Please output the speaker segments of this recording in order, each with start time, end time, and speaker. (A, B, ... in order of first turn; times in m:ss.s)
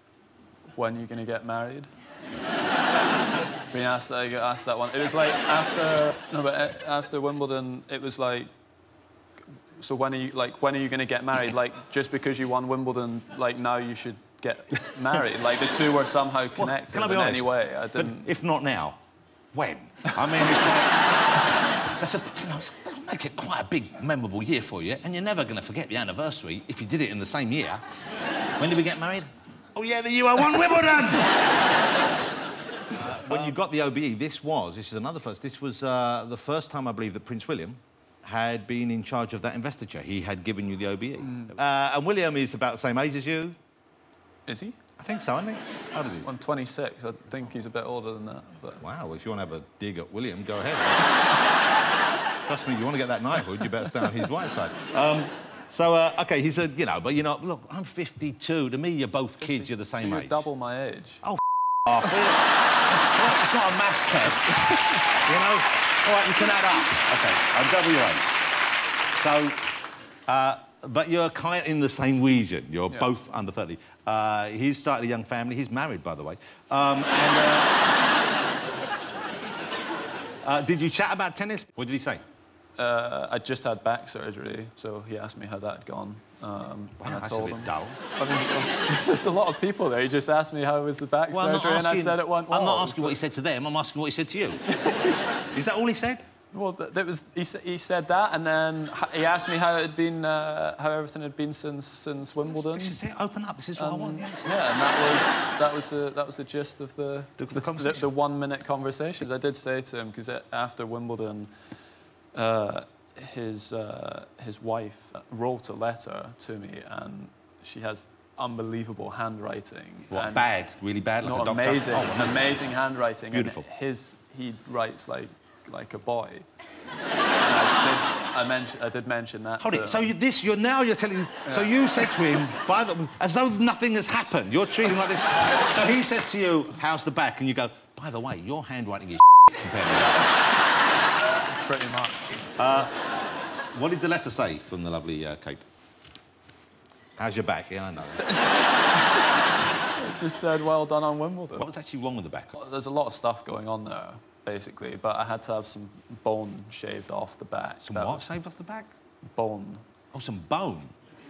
0:00.7-0:01.9 A
0:03.7-0:08.5 A
0:09.8-0:18.3 A
0:16.6-0:19.0 B
0:19.5-0:21.0 B
0:21.9-0:27.8 B
0:28.6-0:31.6 B
0:32.9-0:43.6 B
0:41.2-0:41.5 A
0:44.5-0:44.8 A
0:45.0-0:46.3 B
0:46.2-0:48.8 A
0:48.8-0:51.1 B
0:52.4-1:00.4 B
0:59.5-1:01.2 A
1:01.2-1:08.3 B
1:09.2-1:09.6 B
1:10.3-1:17.8 B
1:20.4-1:22.2 B
1:22.8-1:33.2 A
1:27.0-1:28.0 B
1:31.3-1:34.7 B
1:34.7-1:35.5 A
1:35.4-1:36.2 B
1:36.5-1:43.0 A
1:42.5-1:44.5 B
1:43.8-1:51.5 A
1:47.4-1:48.0 B
1:52.3-2:00.5 A
2:00.1-2:02.6 B
2:01.2-2:06.5 A
2:03.3-2:03.6 B
2:07.4-2:10.1 A
2:09.6-2:20.3 B
2:11.5-2:11.8 A
2:21.5-2:22.4 A
2:22.6-2:23.0 B
2:23.7-2:25.6 B
2:27.2-2:28.3 B
2:28.0-2:31.7 A
2:31.6-2:32.5 B
2:32.5-2:38.4 A
2:37.8-2:38.9 B
2:39.2-2:39.8 A
2:40.1-2:40.9 B